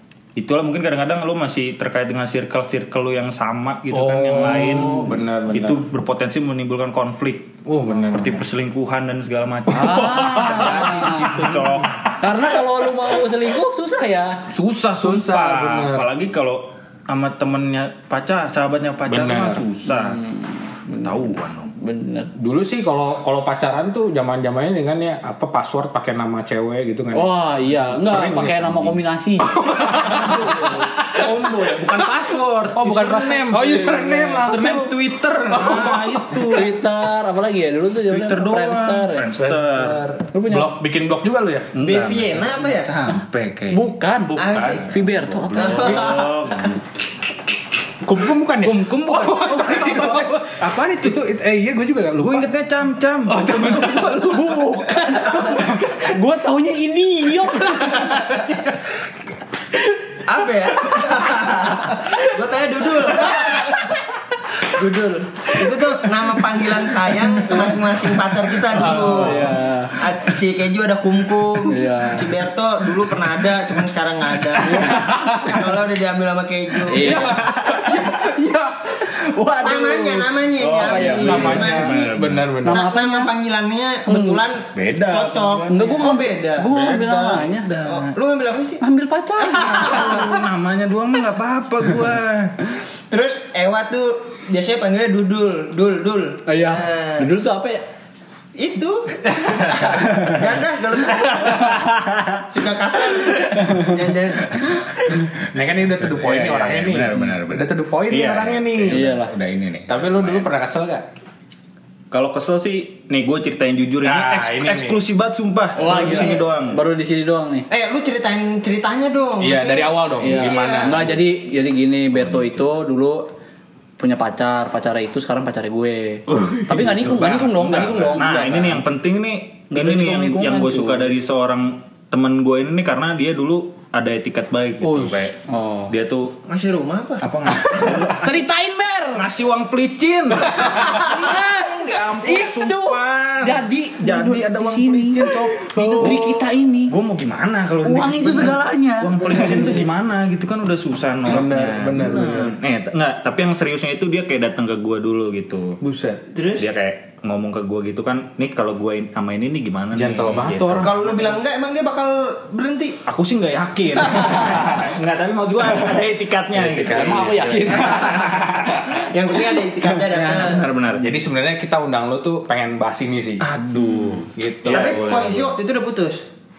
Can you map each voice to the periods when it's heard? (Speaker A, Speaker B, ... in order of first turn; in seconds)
Speaker A: 0.4-12.1, 14.5-20.2, 20.9-21.7, 30.0-36.7, 38.1-40.0, 41.7-43.9, 44.5-46.8, 48.6-51.3, 52.1-56.0, 77.0-78.3, 79.0-82.5, 84.7-86.2, 87.0-88.2, 89.5-92.8, 99.8-100.4, 106.0-110.5, 112.1-116.8, 122.2-122.6, 126.3-135.4, 135.9-136.4, 137.2-138.4, 139.1-155.8, 156.5-161.4, 163.1-168.9, 169.9-171.2, 173.4-175.6
Speaker B: 3.9-5.8, 7.7-8.4, 9.8-11.8, 15.0-16.1, 19.1-19.6, 22.4-29.0, 29.5-31.9, 32.8-35.0, 35.5-36.5, 39.4-39.7, 40.5-41.7, 48.0-52.5, 53.3-54.6, 57.5-58.8, 68.7-69.5, 74.7-75.6, 76.9-79.1, 80.8-82.9, 86.7-87.3, 105.3-109.1, 109.9-111.0, 114.0-115.0, 119.4-121.1, 134.8-135.3, 145.8-146.2, 151.3-152.5, 155.8-156.2, 159.9-160.9, 166.6-167.8, 171.0-173.5, 174.3-175.1
Speaker C: 4.5-5.2, 9.7-11.5, 12.2-14.4, 19.9-22.3, 27.1-30.9, 33.6-34.6, 36.4-39.3, 40.3-40.8, 43.7-46.2, 53.6-58.5, 61.1-62.1, 63.2-63.6, 68.8-70.0, 71.7-72.4, 74.6-75.3, 76.9-77.3, 80.9-81.9, 82.6-83.3, 84.1-84.4, 85.7-87.7, 88.8-90.4, 96.5-97.8, 108.9-109.3, 115.8-117.7, 120.2-123.3, 124.0-128.8, 129.7-131.1, 135.5-135.9, 137.5-139.3, 140.8-146.9, 147.8-149.8, 166.9-168.5
Speaker D: 39.7-40.2, 41.8-43.0, 44.4-44.9, 45.5-46.4, 60.3-63.8, 64.6-77.3, 79.6-82.1, 82.7-86.7, 87.8-88.8, 89.6-90.3, 93.1-97.3, 98.6-104.8, 115.8-116.5, 117.7-121.0, 136.5-137.3, 156.3-156.7, 160.8-163.0, 164.1-164.6, 167.7-170.7, 174.6-176.2